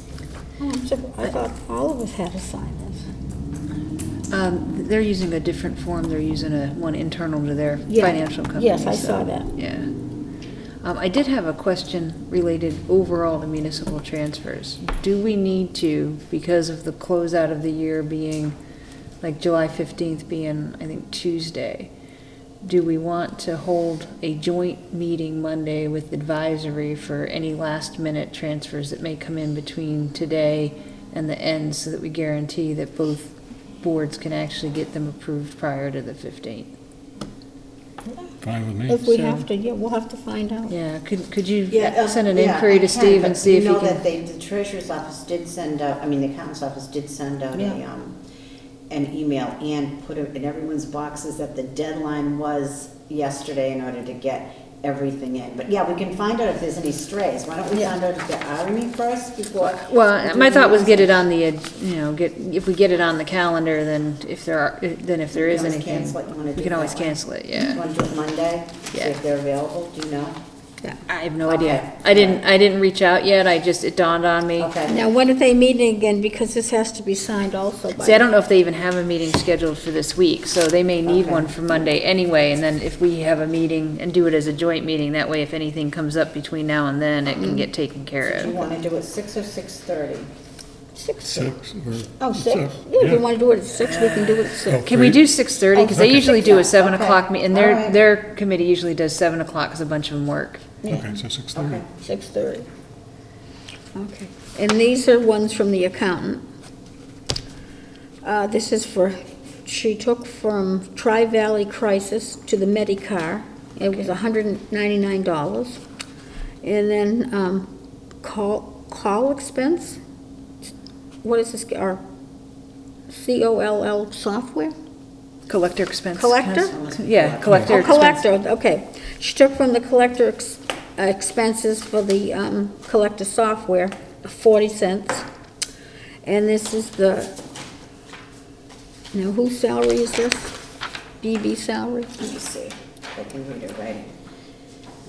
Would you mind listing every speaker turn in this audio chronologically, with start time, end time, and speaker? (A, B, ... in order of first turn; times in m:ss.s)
0:00.6-0:03.0 A
0:04.3-0:09.9 B
0:07.9-0:09.5 A
0:10.8-0:18.6 B
0:19.2-0:21.9 B
0:22.6-0:36.7 B
0:38.4-0:39.0 C
0:38.9-0:40.7 A
0:39.1-0:39.4 B
0:40.7-0:44.0 B
0:41.7-0:48.2 D
0:48.9-1:01.2 D
0:59.6-1:07.8 B
1:05.3-1:10.4 D
1:11.1-1:14.7 B
1:11.4-1:12.4 D
1:14.6-1:15.0 D
1:14.9-1:18.3 A
1:18.0-1:28.6 B
1:21.1-1:21.7 D
1:27.4-1:27.6 A
1:28.3-1:30.3 D
1:31.0-1:31.5 A
1:31.2-1:33.2 C
1:32.2-1:35.0 A
1:33.8-1:40.7 B
1:34.7-1:35.2 C
1:35.8-1:36.2 A
1:36.2-1:38.0 D
1:40.8-1:41.2 A
1:40.9-1:41.8 C
1:41.6-1:41.9 D
1:42.0-1:42.7 A
1:44.0-1:46.4 A
1:48.2-1:55.8 A
1:56.6-1:57.7 A
1:58.2-2:00.0 A
2:01.2-2:02.0 A
2:03.1-2:04.8 A
2:05.5-2:08.2 B
2:06.2-2:06.7 A
2:06.6-2:07.9 D
2:07.5-2:15.3 A
2:16.2-2:17.3 A
2:19.1-2:20.6 A
2:21.2-2:22.3 A
2:22.2-2:24.1 D